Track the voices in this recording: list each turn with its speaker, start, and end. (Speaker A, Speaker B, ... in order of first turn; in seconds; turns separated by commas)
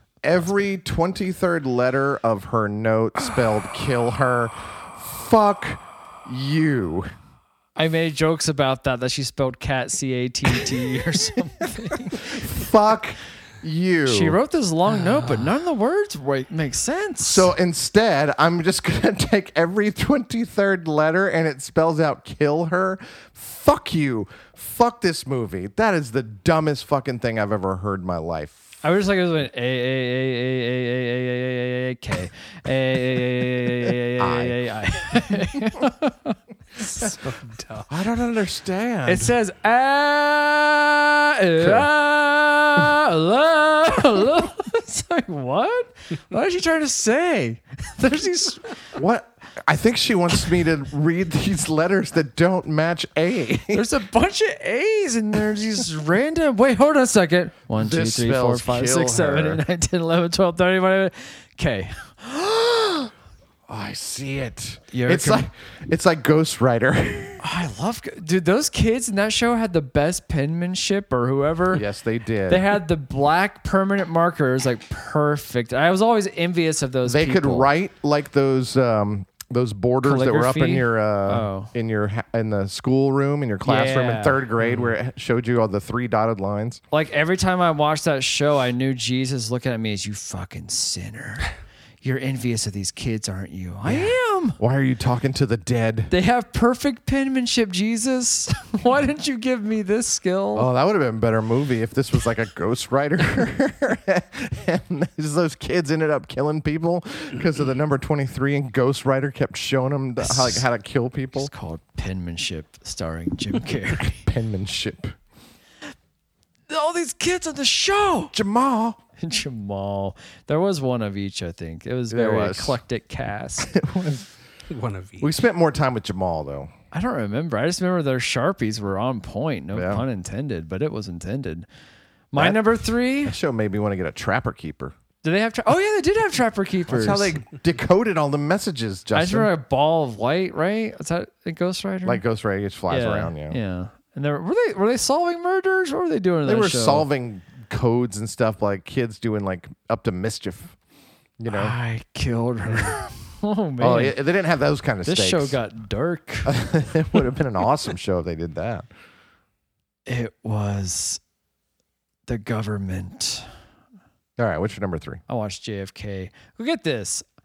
Speaker A: 0.2-7.1, Speaker B: 7.8-12.5, Speaker A: 11.6-14.4, Speaker B: 14.1-17.5, Speaker C: 15.1-15.3, Speaker A: 17.2-28.6, Speaker B: 28.8-36.4, Speaker A: 34.2-34.6, Speaker C: 36.8-37.9, Speaker A: 37.9-39.3, Speaker B: 39.0-48.6, Speaker A: 41.6-41.9, Speaker A: 48.9-53.9, Speaker B: 53.7-62.8, Speaker A: 57.7-59.6, Speaker A: 62.7-63.0, Speaker A: 63.7-67.4, Speaker B: 64.9-65.5, Speaker B: 67.4-71.8, Speaker A: 71.7-72.8, Speaker B: 72.5-77.7, Speaker A: 77.0-86.8, Speaker B: 80.0-81.7, Speaker B: 83.6-84.5, Speaker B: 86.9-91.5, Speaker B: 92.0-94.6, Speaker A: 93.8-96.1, Speaker B: 96.1-100.7, Speaker A: 100.5-111.5, Speaker B: 110.2-110.7, Speaker B: 111.3-114.2, Speaker A: 114.0-115.2, Speaker B: 116.7-118.3, Speaker A: 118.3-119.0, Speaker B: 119.2-123.7, Speaker A: 122.1-122.8, Speaker A: 123.6-124.3, Speaker C: 124.7-125.3, Speaker A: 125.2-126.7, Speaker B: 126.9-131.7, Speaker A: 129.7-130.0, Speaker B: 132.3-133.3, Speaker A: 132.3-132.6, Speaker A: 133.2-134.9, Speaker B: 135.2-137.4, Speaker A: 136.9-139.5, Speaker B: 139.1-142.2, Speaker A: 142.0-143.6, Speaker B: 142.9-147.1, Speaker A: 146.4-150.7, Speaker A: 151.4-151.7, Speaker B: 151.5-154.2, Speaker A: 153.8-155.6, Speaker B: 155.1-156.6, Speaker A: 156.4-158.9, Speaker B: 160.1-161.2, Speaker B: 162.3-163.4, Speaker A: 164.4-165.2, Speaker B: 165.3-167.2